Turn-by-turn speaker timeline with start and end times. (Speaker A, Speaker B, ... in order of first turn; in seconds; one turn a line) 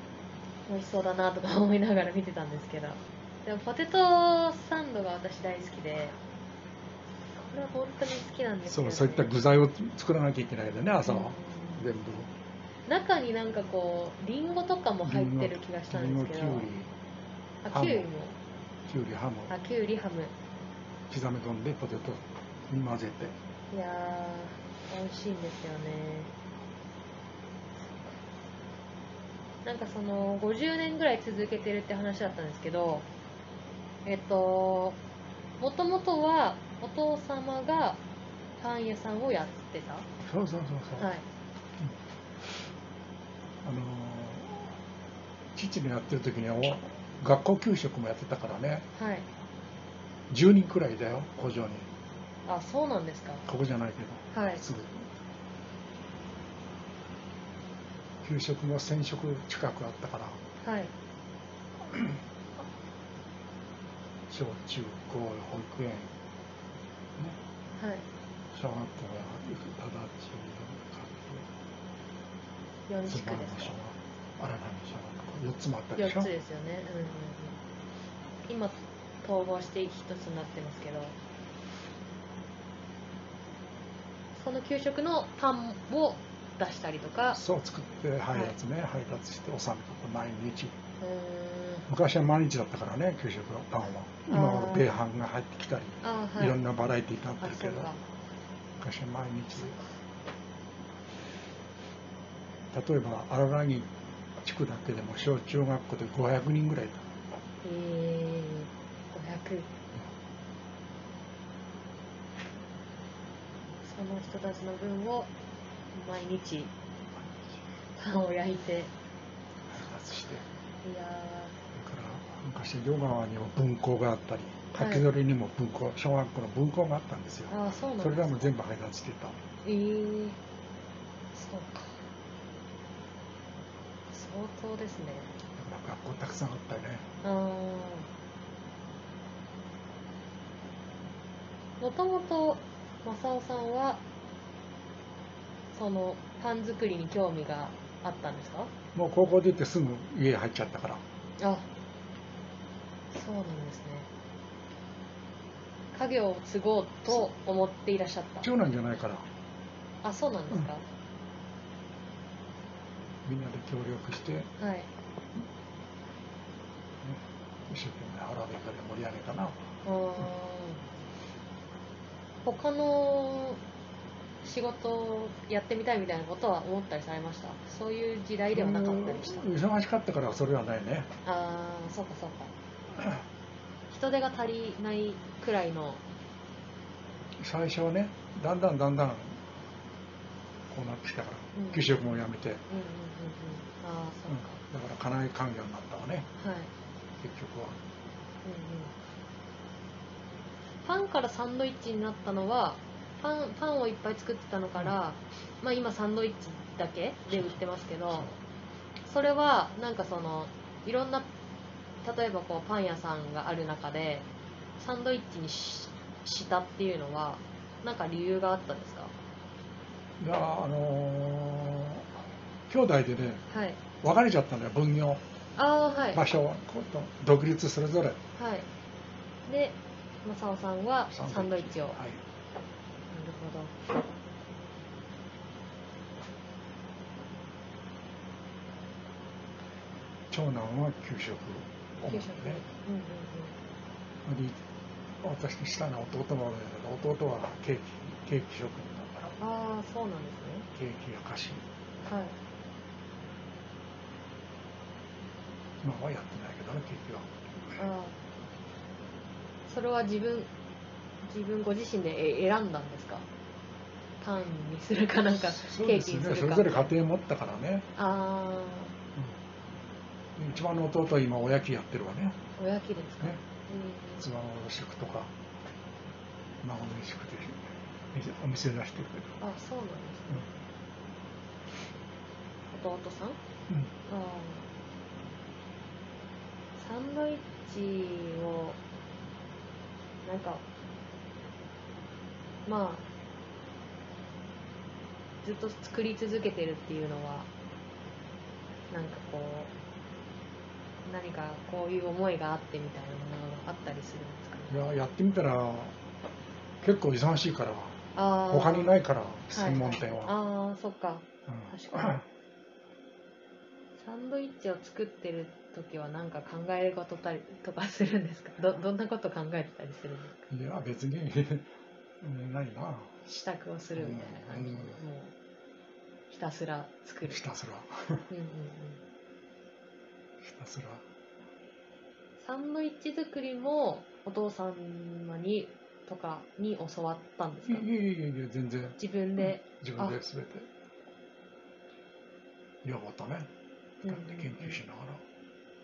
Speaker A: 0.7-6.2
Speaker A: 7.3-9.3
Speaker B: 8.7-12.3
Speaker A: 11.1-11.8
Speaker A: 12.8-16.7
Speaker B: 15.0-16.9
Speaker A: 17.6-18.4
Speaker B: 17.7-18.1
Speaker B: 18.9-19.5
Speaker A: 19.5-20.3
Speaker B: 21.1-23.4
Speaker A: 23.7-26.3
Speaker A: 29.6-33.1
Speaker A: 34.0-35.0
Speaker A: 35.6-38.0
Speaker A: 38.6-40.0
Speaker B: 40.2-41.1
Speaker A: 41.0-41.2
Speaker B: 43.6-44.8
Speaker B: 45.5-48.9
Speaker A: 48.9-49.3
Speaker B: 50.3-51.9
Speaker A: 52.4-53.5
Speaker B: 53.5-55.1
Speaker A: 54.3-54.6
Speaker B: 58.2-60.4
Speaker A: 60.6-60.9
Speaker B: 61.8-62.2
Speaker B: 64.3-66.1
Speaker A: 67.8-68.1
Speaker B: 68.5-71.5
Speaker A: 72.9-73.8
Speaker B: 73.0-76.3
Speaker A: 76.0-77.6
Speaker A: 78.5-81.2
Speaker A: 84.3-87.4
Speaker B: 87.3-90.8
Speaker A: 88.3-88.6
Speaker A: 91.0-91.9
Speaker B: 91.9-97.9
Speaker A: 94.3-94.9
Speaker A: 96.0-96.6
Speaker A: 97.4-98.0
Speaker B: 98.8-99.8
Speaker B: 102.7-103.9
Speaker B: 104.4-107.0
Speaker A: 107.6-109.7
Speaker A: 113.8-115.3
Speaker A: 115.9-116.7
Speaker B: 117.1-117.6
Speaker A: 118.0-118.9
Speaker B: 119.7-120.5
Speaker A: 120.8-121.6
Speaker B: 121.7-129.4
Speaker A: 124.8-125.1
Speaker A: 127.5-128.5
Speaker A: 129.6-130.4
Speaker A: 131.3-132.0
Speaker A: 134.1-135.3
Speaker B: 135.5-137.1
Speaker A: 137.2-138.1
Speaker A: 141.8-144.0
Speaker A: 145.7-148.7
Speaker B: 148.9-151.0
Speaker A: 151.4-151.7
Speaker A: 153.1-154.1
Speaker A: 155.9-158.5
Speaker B: 158.4-159.3
Speaker A: 160.0-160.8
Speaker B: 163.2-164.5
Speaker A: 164.6-164.9
Speaker B: 167.0-169.6
Speaker A: 169.8-170.8
Speaker A: 172.4-173.6
Speaker A: 174.4-179.5
Speaker B: 178.5-181.1
Speaker A: 181.2-182.5
Speaker A: 183.9-186.0
Speaker B: 187.4-189.4
Speaker B: 190.7-192.6
Speaker A: 191.5-191.8
Speaker A: 192.7-194.6
Speaker B: 194.3-196.3
Speaker A: 196.4-196.7
Speaker B: 197.2-197.8
Speaker A: 198.4-198.9
Speaker A: 200.8-208.3
Speaker B: 207.3-208.4
Speaker A: 209.0-211.3
Speaker A: 212.0-219.1
Speaker B: 220.2-223.4
Speaker A: 223.5-223.8
Speaker B: 224.0-225.2
Speaker A: 225.6-226.2
Speaker B: 226.1-228.2
Speaker A: 228.3-228.7
Speaker A: 229.4-232.0
Speaker B: 231.1-232.2
Speaker A: 233.1-233.7
Speaker B: 240.3-242.6
Speaker A: 242.1-243.6
Speaker B: 244.2-244.6
Speaker B: 245.2-249.3
Speaker A: 249.4-250.7
Speaker B: 250.7-251.6
Speaker A: 252.0-252.4
Speaker B: 255.8-257.7
Speaker A: 257.8-258.2
Speaker A: 259.6-260.5
Speaker A: 261.2-263.3
Speaker A: 264.2-266.9
Speaker B: 265.3-267.9
Speaker A: 267.9-268.9
Speaker B: 270.4-272.4
Speaker A: 272.6-274.3
Speaker B: 274.2-275.3
Speaker B: 276.6-279.4
Speaker A: 279.4-280.5
Speaker A: 282.7-283.4
Speaker A: 284.1-284.7
Speaker A: 286.8-288.8
Speaker A: 290.2-290.6
Speaker A: 292.6-293.1
Speaker A: 295.4-297.5
Speaker A: 298.9-299.7
Speaker A: 301.0-304.8
Speaker B: 304.7-305.9
Speaker B: 306.8-308.0
Speaker A: 308.1-308.9
Speaker B: 308.5-310.3
Speaker A: 309.5-312.2
Speaker B: 311.5-312.2
Speaker A: 314.0-320.4
Speaker B: 320.5-321.7
Speaker B: 322.2-323.2
Speaker A: 323.2-325.3
Speaker B: 323.9-325.0
Speaker A: 326.3-327.4
Speaker B: 327.3-328.3
Speaker A: 328.3-329.0
Speaker B: 330.4-331.0
Speaker A: 332.4-337.9
Speaker B: 337.7-340.7
Speaker A: 339.0-340.2
Speaker B: 342.8-343.5
Speaker B: 344.0-345.2
Speaker A: 344.0-344.8